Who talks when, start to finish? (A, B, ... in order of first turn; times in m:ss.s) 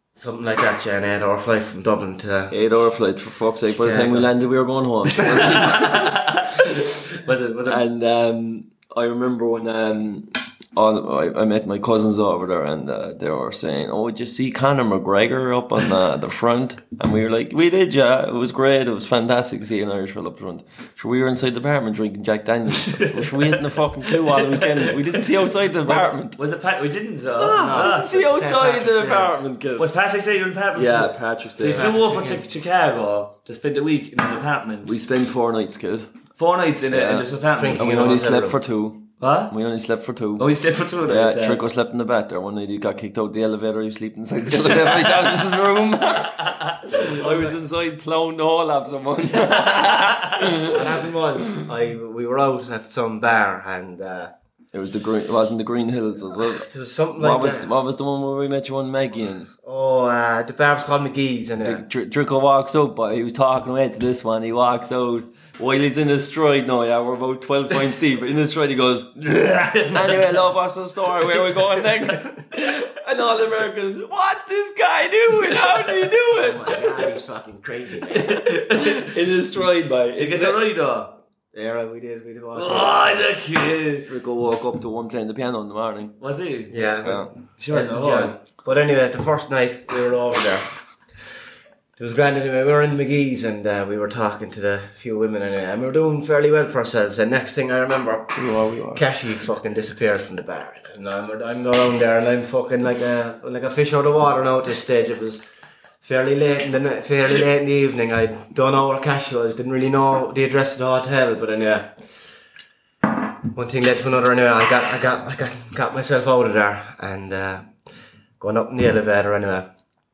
0:00.2-0:02.6 A
0:02.5-0:06.2 B
0:03.8-0:04.3 A
0:05.3-0:07.8 C
0:07.7-0:26.4 B
0:22.9-0:23.2 C
0:24.2-0:25.0 C
0:25.8-0:28.0 C
0:27.4-0:29.9 B
0:27.5-0:29.3 A
0:29.8-0:35.0 C
0:30.8-0:31.9 B
0:31.7-0:32.4 A
0:34.8-0:36.1 B
0:36.4-0:37.9 C
0:36.9-0:40.5 B
0:37.6-0:38.6 A
0:39.2-0:39.5 C
0:40.4-0:41.6 C
0:41.1-0:51.0 B
0:46.4-0:47.2 C
0:47.0-0:47.5 A
0:50.6-0:54.3 A
0:54.7-0:59.5 B
0:56.4-0:57.7 A
0:59.6-1:01.8 A
1:01.6-1:17.0 B
1:09.4-1:10.3 C
1:16.3-1:18.4 A
1:18.1-1:19.1 C
1:18.8-1:20.6 B
1:20.1-1:21.1 C
1:21.5-1:23.2 A
1:22.5-1:24.1 C
1:24.1-1:26.2 B
1:26.2-1:26.7 C
1:26.7-1:31.3 A
1:27.0-1:27.3 B
1:27.6-1:28.3 C
1:32.0-1:45.4 A
1:38.4-1:39.0 B
1:46.0-1:52.1 A
1:53.5-1:57.8 A
1:58.4-1:59.7 A